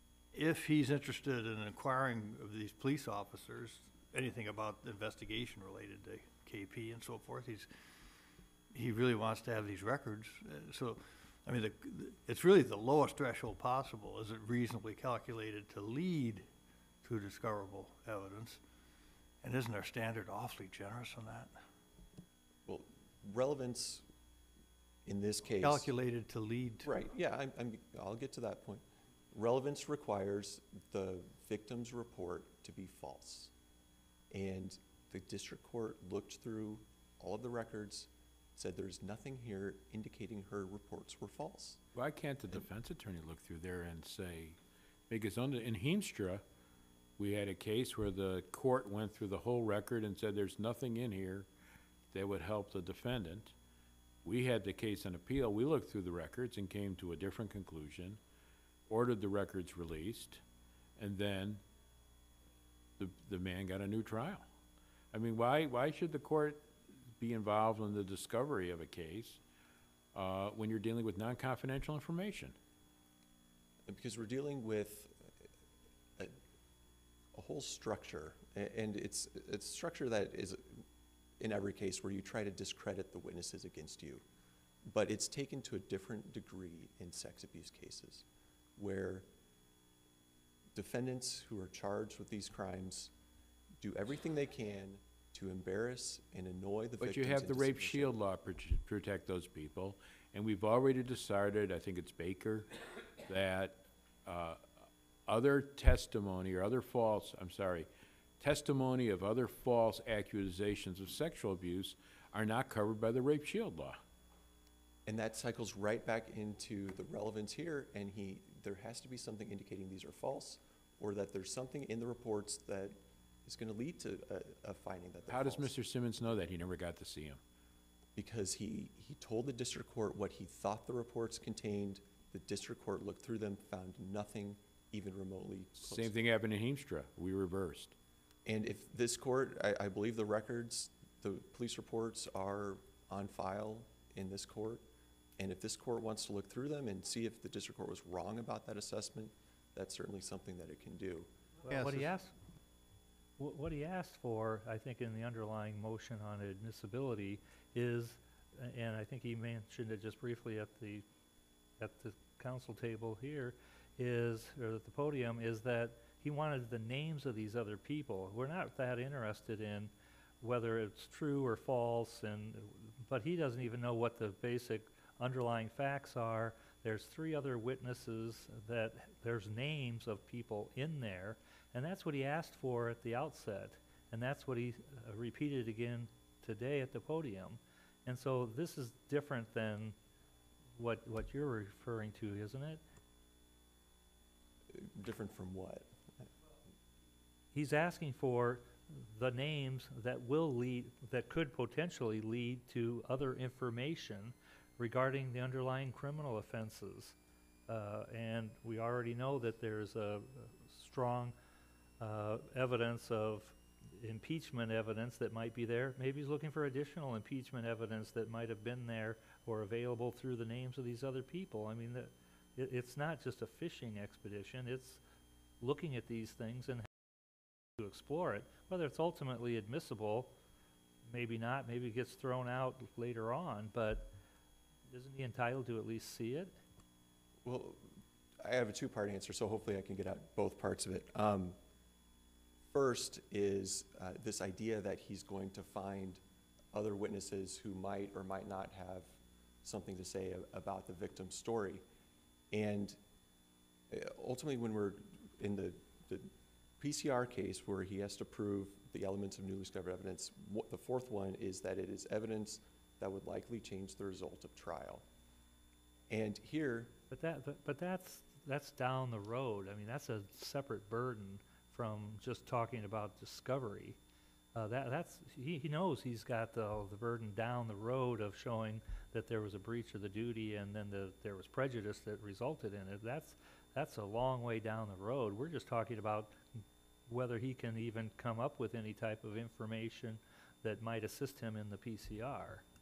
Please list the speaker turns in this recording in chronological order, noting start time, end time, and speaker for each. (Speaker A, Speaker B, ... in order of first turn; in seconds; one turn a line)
Speaker A: 0.3-7.7
Speaker A: 8.7-16.5
Speaker A: 17.0-18.6
Speaker A: 19.4-21.6
Speaker B: 22.7-24.0
Speaker B: 25.1-25.9
Speaker A: 25.6-26.9
Speaker B: 26.9-33.5
Speaker B: 34.3-41.8
Speaker C: 41.9-44.6
Speaker C: 45.1-46.4
Speaker C: 47.2-51.5
Speaker C: 52.1-53.5
Speaker C: 54.2-58.2
Speaker C: 58.9-60.4
Speaker C: 61.0-61.6
Speaker C: 63.0-64.4
Speaker C: 65.1-69.4
Speaker C: 70.1-72.5
Speaker B: 73.9-75.2
Speaker B: 77.3-80.8
Speaker B: 81.4-84.2
Speaker B: 84.9-88.2
Speaker B: 88.8-89.3
Speaker B: 90.8-93.1
Speaker B: 93.8-98.2
Speaker C: 97.0-102.7
Speaker C: 103.3-104.7
Speaker C: 105.3-107.9
Speaker C: 108.4-114.0
Speaker B: 115.1-125.8
Speaker C: 125.3-127.4
Speaker B: 128.2-136.1
Speaker C: 135.8-137.9
Speaker B: 138.5-144.8
Speaker B: 145.4-151.3
Speaker D: 151.7-152.3
Speaker A: 151.7-152.1
Speaker D: 153.4-161.0
Speaker D: 161.8-189.9
Speaker D: 190.8-192.8
Speaker B: 194.7-195.9
Speaker D: 197.5-207.2
Speaker D: 207.7-211.3
Speaker D: 212.0-225.0
Speaker D: 225.6-226.9
Speaker D: 227.8-230.3
Speaker D: 231.1-234.1
Speaker D: 234.9-236.5
Speaker B: 237.4-237.8
Speaker B: 238.4-241.6
Speaker B: 242.7-246.2
Speaker B: 246.7-249.1
Speaker B: 249.6-251.8
Speaker B: 252.5-253.0
Speaker B: 253.9-265.0
Speaker B: 266.1-266.9
Speaker D: 267.1-274.0
Speaker D: 274.6-286.4
Speaker D: 287.1-292.6